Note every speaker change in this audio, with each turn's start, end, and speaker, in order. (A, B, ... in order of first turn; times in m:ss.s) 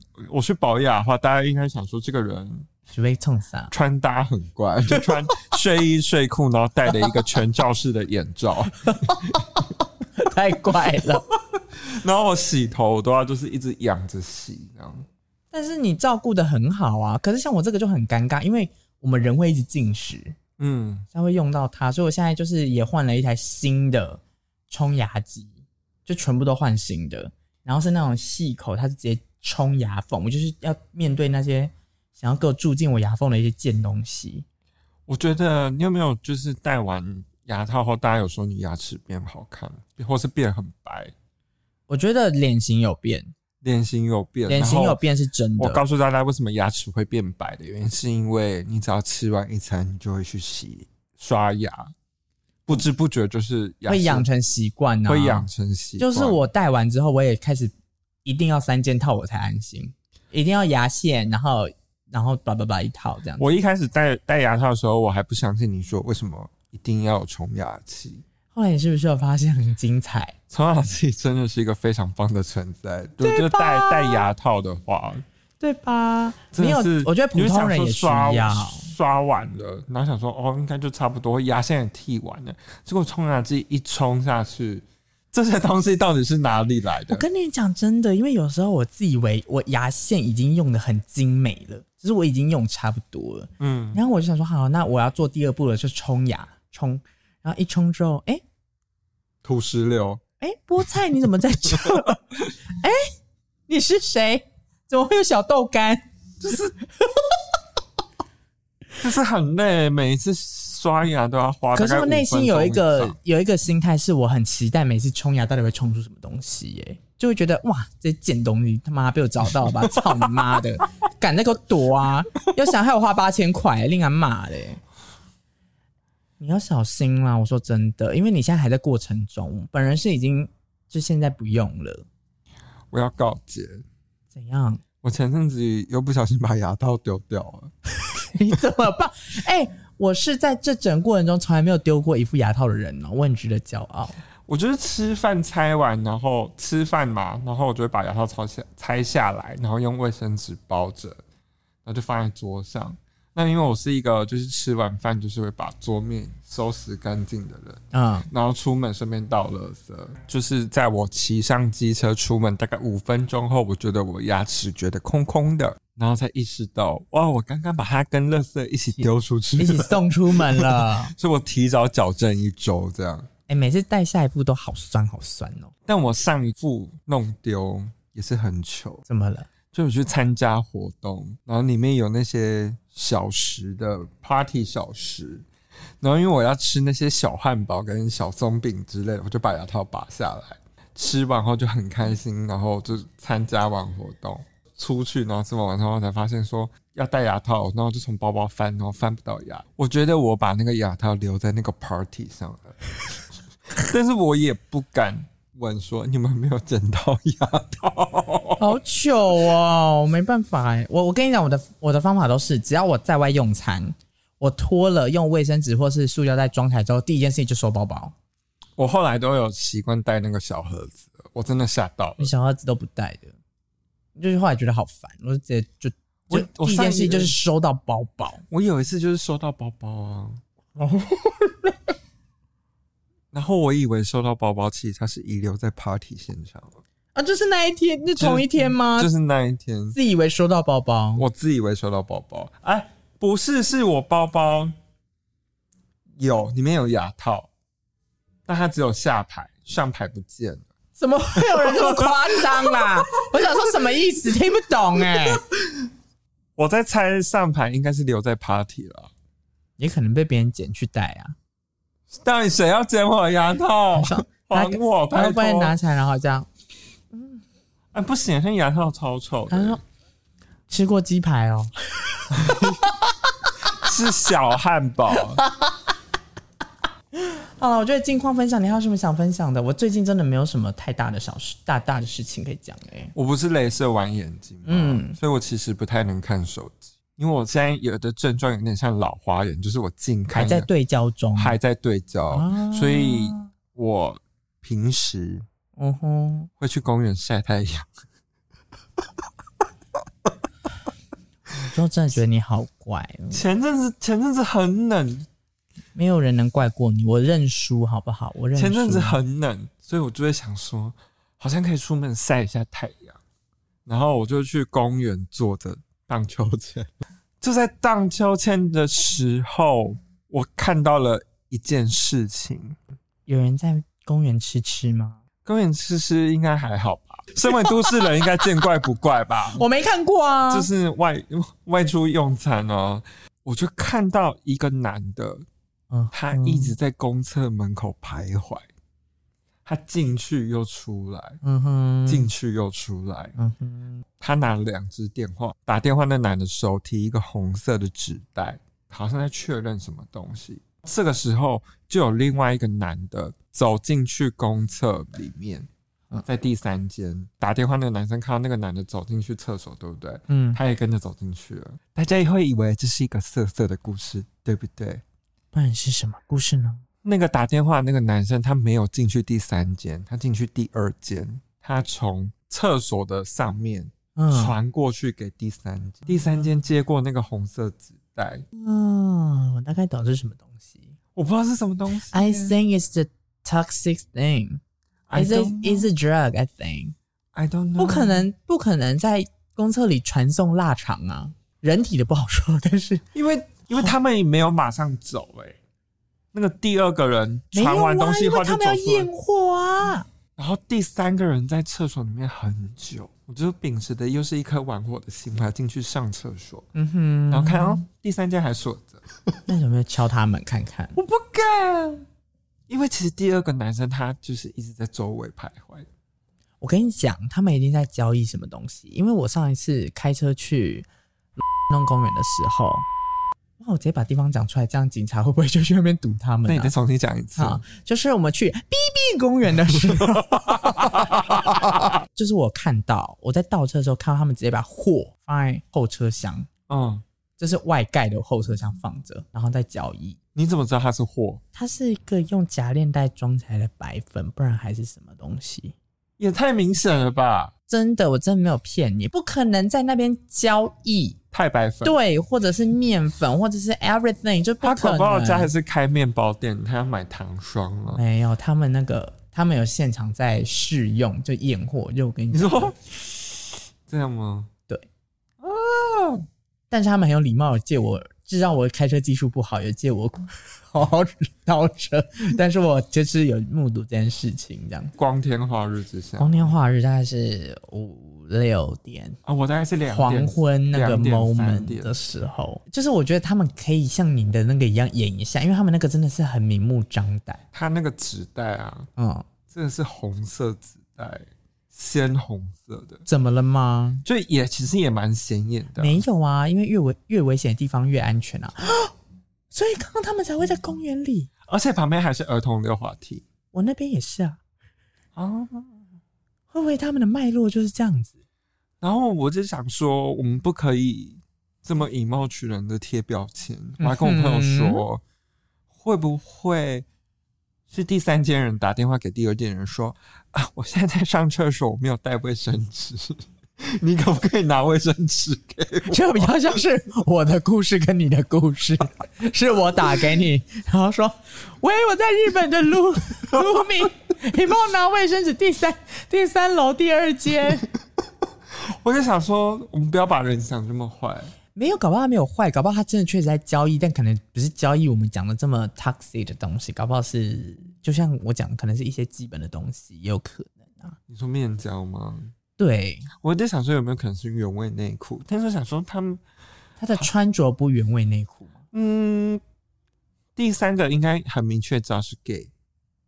0:00.2-0:02.7 A
0:02.9-0:03.7 B
0:03.7-0:09.5 A
0:04.9-0:05.4 B
0:08.9-0:11.2 B
0:11.0-0:15.0 A
0:15.5-0:20.4 B
0:20.6-0:21.0 A
0:21.1-0:25.5 B
0:26.0-0:34.4 B
0:35.1-0:41.1 A
0:41.9-0:43.3 B
0:43.6-0:45.0 A
0:44.5-0:45.8 B
0:45.6-0:51.9 A
0:52.6-0:54.3 A
0:53.9-0:55.5 B
0:55.0-0:56.4 A
0:56.0-0:57.7 B
0:58.2-1:03.5 B
1:03.4-1:08.2 A
1:08.5-1:10.4 B
1:10.5-1:15.2 A
1:13.2-1:14.3 B
1:15.6-1:18.9 B
1:16.5-1:27.2 A
1:27.1-1:38.4 B
1:33.6-1:34.0 A
1:39.4-1:40.2 A
1:40.4-1:43.1 B
1:43.7-1:46.0 B
1:46.4-1:46.7 A
1:49.0-1:53.2 A
1:51.7-2:04.8 B
1:59.6-2:00.6 A
2:06.4-2:12.0 B
2:12.9-2:13.8 A
2:14.3-2:14.8 B
2:15.0-2:17.7 A
2:18.2-2:24.2 B
2:24.5-2:31.2 A
2:31.8-2:53.3 A
2:37.9-2:38.3 B
2:49.6-2:51.1 B
2:53.5-2:55.7 B
2:55.9-2:59.0 A
2:59.1-2:59.5 B
2:59.7-3:05.4 A
3:06.0-3:22.8 A
3:23.7-3:28.8 A
3:28.6-3:38.1 B
3:38.8-3:42.3 A
3:42.2-3:43.4 B
3:44.2-3:48.4 B
3:46.3-3:47.4 A
3:48.5-3:50.4 A
3:50.8-3:51.7 B
3:53.3-3:56.8 A
3:57.1-3:59.1 B
3:58.2-4:00.0 A
3:59.9-4:01.2 B
4:01.2-4:04.7 A
4:06.2-4:07.5 A
4:08.4-4:10.7 A
4:11.0-4:15.4 B
4:11.3-4:14.0 A
4:15.0-4:15.9 A
4:16.6-4:19.1 A
4:19.8-4:21.3 B
4:22.1-4:25.7 A
4:23.9-4:26.5 B
4:27.1-4:27.4 B
4:27.9-4:29.8 A
4:29.5-4:29.8 B
4:30.7-4:33.5 B
4:32.3-4:32.9 A
4:33.7-4:35.4 A
4:35.4-4:35.7 B
4:37.2-4:43.1 B
4:43.1-4:50.7 A
4:44.6-4:45.2 B
4:50.3-4:51.6 B
4:51.3-4:55.4 A
4:52.3-4:53.5 B
4:55.8-4:56.5 B
4:56.6-4:57.9 A
5:01.5-5:03.4 B
5:03.3-5:05.3 A
5:05.9-5:09.2 B
5:08.5-5:13.2 A
5:13.8-5:22.8 A
5:23.2-5:25.2 B
5:25.4-5:29.6 A
5:27.6-5:28.3 B
5:29.5-5:30.7 B
5:30.5-5:35.4 A
5:35.9-5:36.8 B
5:36.1-5:38.7 A
5:39.6-5:41.4 A
5:41.4-5:42.3 B
5:42.1-5:43.3 A
5:43.4-5:44.0 B
5:44.2-5:55.7 A
5:56.2-6:05.0 A
6:00.3-6:00.6 B
6:05.5-6:06.8 B
6:07.0-6:18.4 A
6:14.2-6:14.5 B
6:18.6-6:20.9 B
6:21.2-6:22.6 A
6:22.1-6:24.6 B
6:25.1-6:25.9 A
6:25.1-6:26.9 B
6:27.3-6:28.3 A
6:27.8-6:33.0 B
6:33.1-6:35.6 A
6:36.3-6:39.1 A
6:37.5-6:40.1 B
6:40.4-6:46.7 A
6:46.7-6:47.8 B
6:47.3-6:49.4 A
6:49.5-6:51.0 B
6:51.0-6:52.0 A
6:52.7-6:55.9 A
6:56.6-7:00.8 B
7:01.7-7:02.8 B
7:03.6-7:06.7 B
7:06.5-7:07.6 A
7:07.4-7:16.5 B
7:09.9-7:12.0 A
7:16.7-7:17.0 A
7:17.4-7:20.2 B
7:20.3-7:21.4 A
7:21.5-7:25.8 B
7:26.2-7:27.5 A
7:27.7-7:31.2 B
7:31.3-7:32.0 A
7:31.8-7:35.5 B
7:34.6-7:38.0 A
7:37.9-7:42.7 B
7:42.3-7:44.5 A
7:45.4-7:46.2 A
7:46.7-7:54.9 B
7:55.0-7:56.6 A
7:56.2-7:59.2 B
7:59.2-8:01.9 A
7:59.9-8:07.4 B
8:07.5-8:08.9 A
8:09.0-8:09.3 B
8:09.5-8:13.0 A
8:13.1-8:14.0 B
8:14.0-8:16.0 A
8:15.8-8:18.9 B
8:19.5-8:21.3 B
8:21.5-8:23.2 A
8:23.5-8:24.4 B
8:25.1-8:25.7 A
8:26.5-8:28.2 B
8:28.8-8:35.0 A
8:33.8-8:34.8 B
8:35.7-8:36.8 A
8:37.7-8:46.3 A
8:45.8-8:57.7 B
8:53.3-8:53.6 A
8:58.5-9:01.3 A
9:01.5-9:11.0 B
9:11.1-9:12.3 A
9:12.6-9:13.1 B
9:13.1-9:16.2 A
9:16.8-9:18.5 B
9:18.7-9:19.4 A
9:20.4-9:22.5 A